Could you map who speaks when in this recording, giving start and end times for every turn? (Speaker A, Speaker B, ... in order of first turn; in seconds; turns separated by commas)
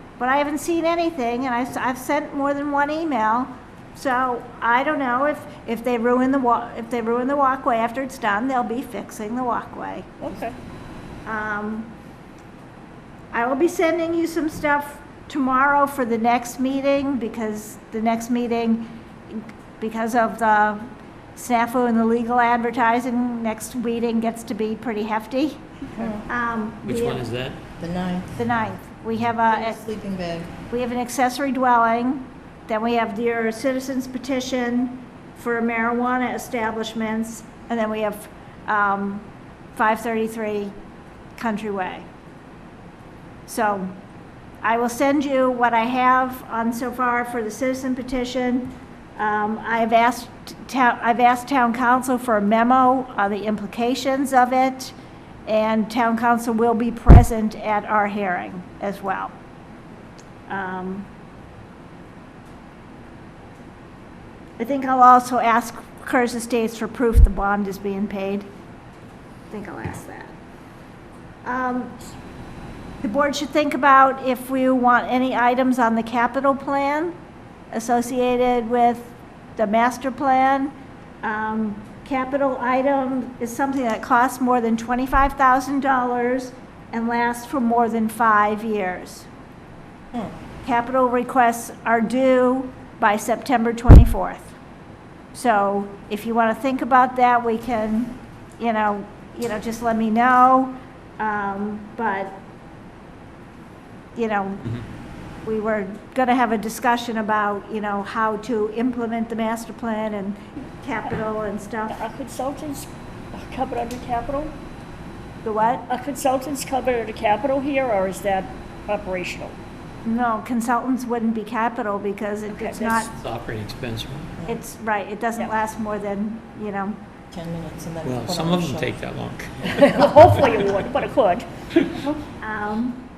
Speaker A: 0.2-10.4, Speaker B: 10.2-10.5, Speaker A: 11.2-11.9, Speaker A: 13.3-25.7, Speaker C: 25.9-26.2, Speaker A: 26.3-27.2, Speaker D: 26.8-27.6, Speaker C: 27.8-28.4, Speaker A: 28.3-29.8, Speaker C: 29.5-30.5, Speaker A: 30.7-40.7, Speaker A: 41.4-42.0, Speaker A: 43.5-43.9, Speaker A: 44.6-54.9, Speaker A: 55.5-59.3, Speaker A: 60.5-61.1, Speaker A: 64.6-68.5, Speaker A: 69.5-70.3, Speaker A: 71.4-72.0, Speaker A: 73.0-77.1, Speaker A: 77.7-89.3, Speaker A: 90.6-94.5, Speaker A: 95.3-102.4, Speaker A: 104.2-104.8, Speaker A: 105.4-112.0, Speaker B: 111.9-114.5, Speaker A: 115.4-115.8, Speaker B: 115.9-119.5, Speaker A: 120.0-123.1, Speaker B: 122.5-123.1, Speaker D: 123.1-124.3, Speaker A: 124.5-127.0, Speaker C: 127.3-129.0, Speaker D: 128.0-130.0, Speaker B: 129.6-132.1, Speaker A: 132.4-133.0